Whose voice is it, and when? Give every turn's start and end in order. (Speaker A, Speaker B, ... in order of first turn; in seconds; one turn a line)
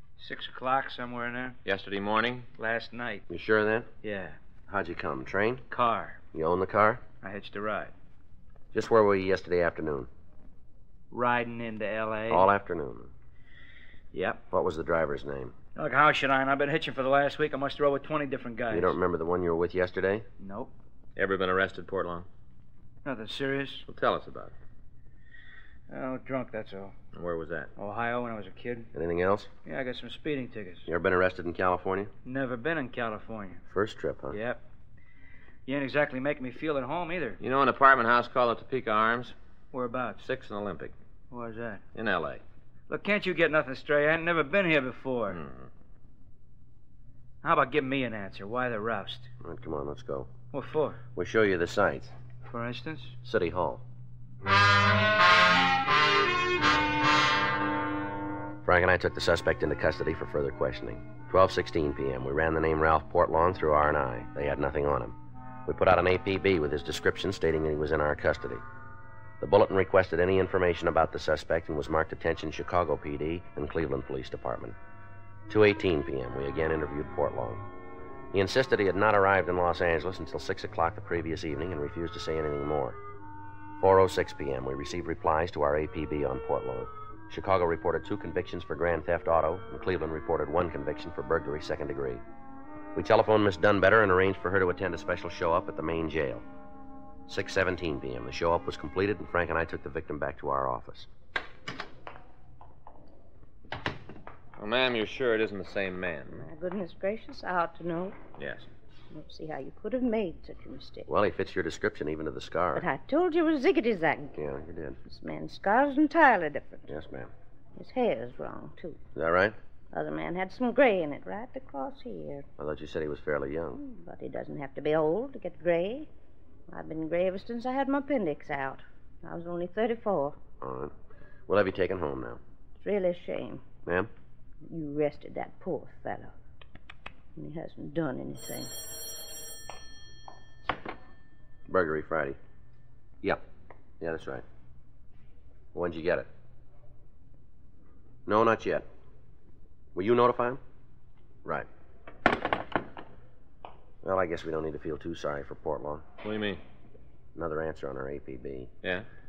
Speaker A: 0.2-1.6
Speaker B: 1.6-2.5
Speaker A: 2.5-3.2
Speaker C: 3.3-3.9
Speaker A: 4.0-4.4
Speaker C: 4.7-5.7
Speaker A: 5.7-6.2
Speaker C: 6.3-7.0
Speaker A: 7.2-7.9
Speaker C: 8.7-10.1
Speaker A: 11.1-12.5
Speaker C: 12.3-13.1
Speaker A: 14.1-14.4
Speaker C: 14.5-15.5
Speaker A: 15.8-19.0
Speaker C: 18.7-20.2
Speaker A: 20.4-20.7
Speaker B: 21.2-22.3
Speaker A: 23.1-23.9
Speaker B: 23.9-24.5
Speaker A: 25.9-26.9
Speaker B: 27.1-27.7
Speaker A: 27.8-28.9
Speaker C: 28.9-29.5
Speaker A: 29.7-30.9
Speaker C: 30.9-32.1
Speaker A: 32.2-33.6
Speaker C: 33.7-34.4
Speaker A: 34.3-34.6
Speaker A: 35.7-37.4
Speaker B: 37.4-39.4
Speaker A: 39.7-40.2
Speaker B: 40.2-40.9
Speaker A: 41.3-41.8
Speaker B: 41.9-42.4
Speaker A: 42.9-45.4
Speaker B: 45.3-45.7
Speaker A: 47.4-49.3
Speaker C: 49.4-50.3
Speaker A: 50.5-51.0
Speaker C: 51.2-52.1
Speaker A: 52.5-53.2
Speaker C: 53.2-53.8
Speaker C: 58.6-65.2
Speaker C: 65.7-68.6
Speaker C: 69.4-74.8
Speaker C: 75.5-77.7
Speaker C: 78.3-83.0
Speaker C: 83.8-92.2
Speaker C: 93.0-96.5
Speaker C: 97.3-101.1
Speaker B: 104.6-106.4
Speaker D: 106.3-108.2
Speaker B: 108.4-108.7
Speaker D: 109.1-111.1
Speaker C: 111.1-112.8
Speaker D: 112.8-114.4
Speaker C: 114.4-115.0
Speaker D: 115.1-116.9
Speaker C: 116.9-117.3
Speaker D: 117.8-119.0
Speaker C: 119.2-119.5
Speaker D: 119.9-122.5
Speaker C: 122.6-123.8
Speaker D: 123.8-126.1
Speaker D: 126.7-130.4
Speaker C: 130.6-130.9
Speaker C: 131.5-132.4
Speaker D: 132.8-133.6
Speaker C: 133.8-134.1
Speaker D: 134.7-136.3
Speaker D: 137.4-138.7
Speaker C: 141.7-142.4
Speaker C: 144.0-144.4
Speaker C: 145.7-146.3
Speaker C: 148.3-148.9
Speaker C: 149.9-150.6
Speaker C: 154.0-156.0
Speaker B: 156.2-156.6
Speaker C: 157.3-158.7